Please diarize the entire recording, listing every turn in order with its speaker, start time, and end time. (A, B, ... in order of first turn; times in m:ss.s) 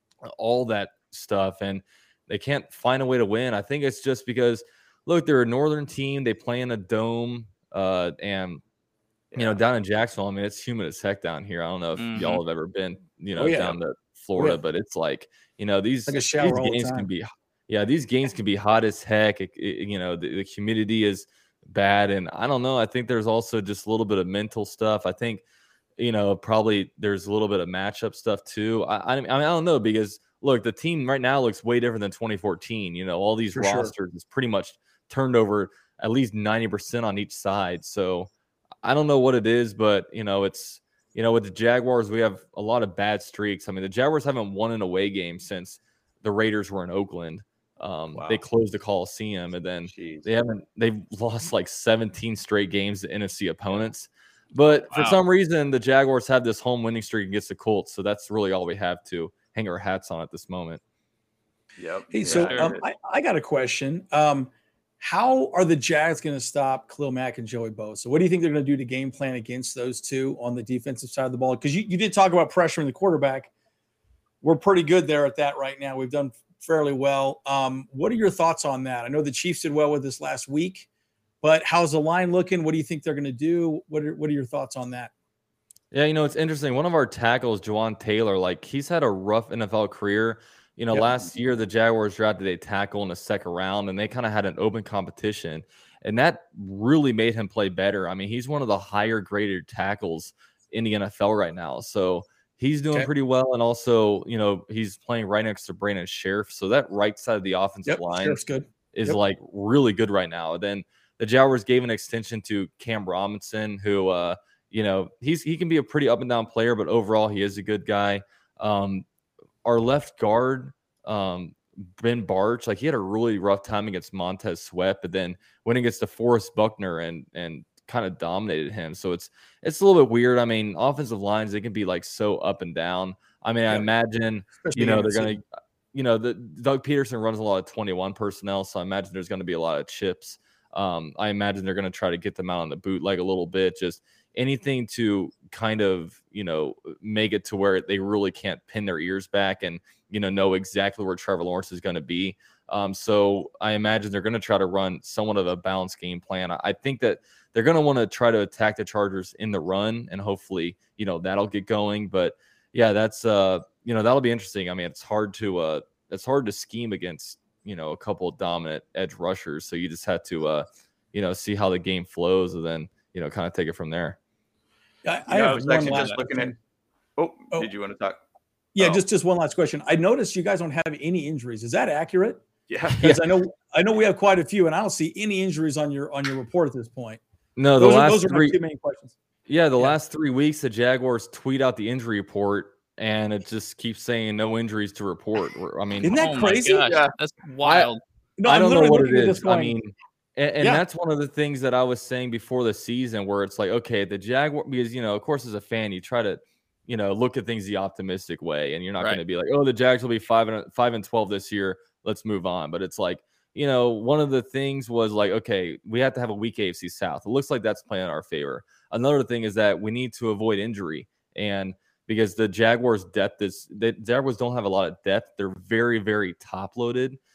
0:00.2-0:08.6 A
0:09.3-0:09.6 B
0:09.4-0:25.4 A
0:12.0-0:12.4 C
0:13.4-0:13.8 D
0:16.1-0:17.1 D
0:26.0-0:38.3 A
0:33.5-0:33.9 D
0:38.8-1:00.8 A
0:48.1-0:48.4 B
0:49.9-0:50.3 B
0:54.6-0:55.2 B
1:01.8-1:02.8 B
1:02.1-1:13.5 D
1:02.3-1:02.7 C
1:14.4-1:20.9 D
1:21.4-1:25.1 D
1:25.9-1:48.4 A
1:47.8-1:49.2 D
1:48.9-1:59.0 A
1:59.6-2:54.2 A
2:14.6-2:15.4 D
2:55.0-2:56.6 D
2:55.3-2:56.5 B
2:57.2-2:58.2 B
2:58.7-3:07.2 D
2:58.8-2:59.0 B
3:02.7-3:03.0 B
3:07.6-3:08.6 A
3:07.8-3:09.2 D
3:09.5-3:16.4 A
3:16.0-3:17.0 D
3:16.0-3:18.0 C
3:16.8-3:17.1 B
3:17.6-3:17.9 A
3:18.4-3:19.8 D
3:18.4-3:47.2 A